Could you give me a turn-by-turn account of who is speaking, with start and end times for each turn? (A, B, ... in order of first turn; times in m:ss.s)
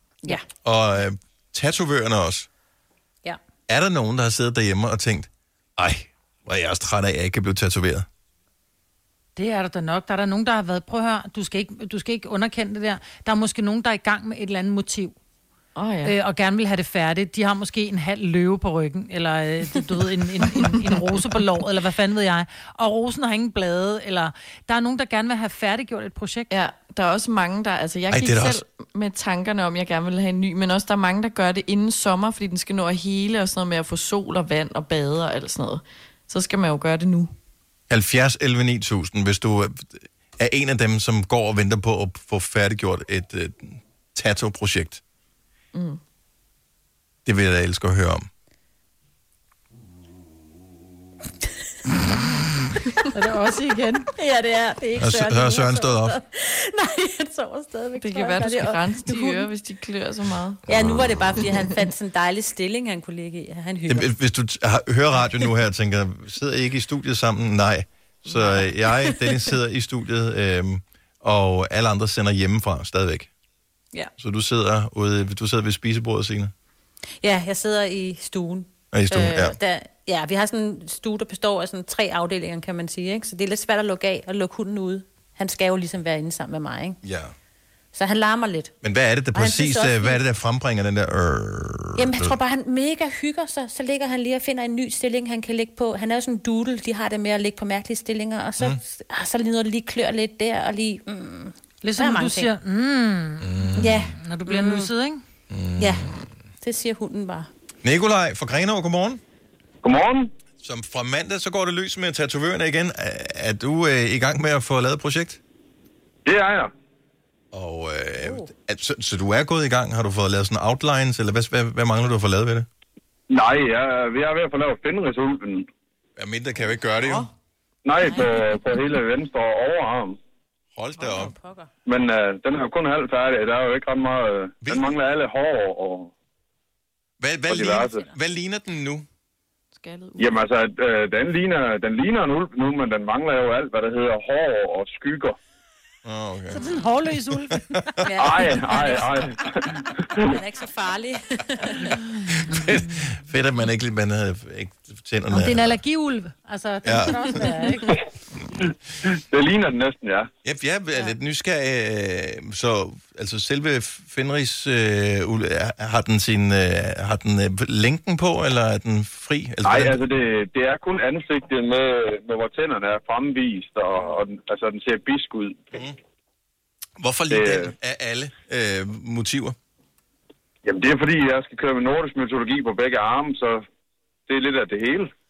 0:00.6-0:02.5 A
0:03.7-0:08.1 A
0:09.4-0:15.2 B
0:15.7-0:16.1 C
0:16.0-0:26.5 B
0:26.5-0:37.3 C
0:28.1-0:28.6 A
0:37.9-0:45.0 A
0:45.7-0:46.0 C
0:47.2-0:48.3 A
0:53.1-0:54.1 B
0:54.1-0:59.5 D
0:55.0-0:56.2 A
0:58.0-1:00.6 C
1:00.7-1:01.4 A
1:00.7-1:04.1 D
1:03.9-1:13.3 A
1:14.2-1:16.5 A
1:17.2-1:27.0 D
1:18.9-1:19.6 A
1:27.0-1:27.3 A
1:27.9-1:28.7 D
1:28.8-1:32.4 A
1:29.3-1:30.2 D
1:32.0-1:42.5 D
1:41.8-1:45.2 B
1:43.4-1:44.0 A
1:43.8-1:44.9 D
1:45.5-1:46.2 A
1:45.8-1:47.5 D
1:47.8-1:49.2 A
1:49.8-1:50.3 E
1:50.6-1:55.4 A
1:56.2-1:56.7 E
1:57.5-2:02.7 A
2:03.3-2:05.7 E
2:06.2-2:07.3 A
2:07.8-2:10.2 E
2:08.0-2:08.6 D
2:10.7-2:11.3 A
2:11.0-2:11.7 D
2:11.8-2:16.1 E
2:14.6-2:14.9 A
2:17.2-2:19.1 A
2:17.5-2:18.0 E
2:17.8-2:18.0 D
2:19.7-2:20.4 C
2:20.2-2:25.4 E
2:26.0-2:28.0 A
2:26.5-2:28.0 B
2:28.0-2:29.2 D
2:28.2-2:30.4 E
2:30.2-2:32.0 D
2:32.3-2:35.8 A
2:35.3-2:38.0 B
2:36.8-2:37.5 A
2:37.3-2:37.6 D
2:39.0-2:40.3 E
2:40.4-2:50.0 A
2:49.6-2:55.7 E
2:57.0-2:59.6 A
2:57.3-2:57.7 E
3:00.6-3:03.6 E
3:04.3-3:05.1 E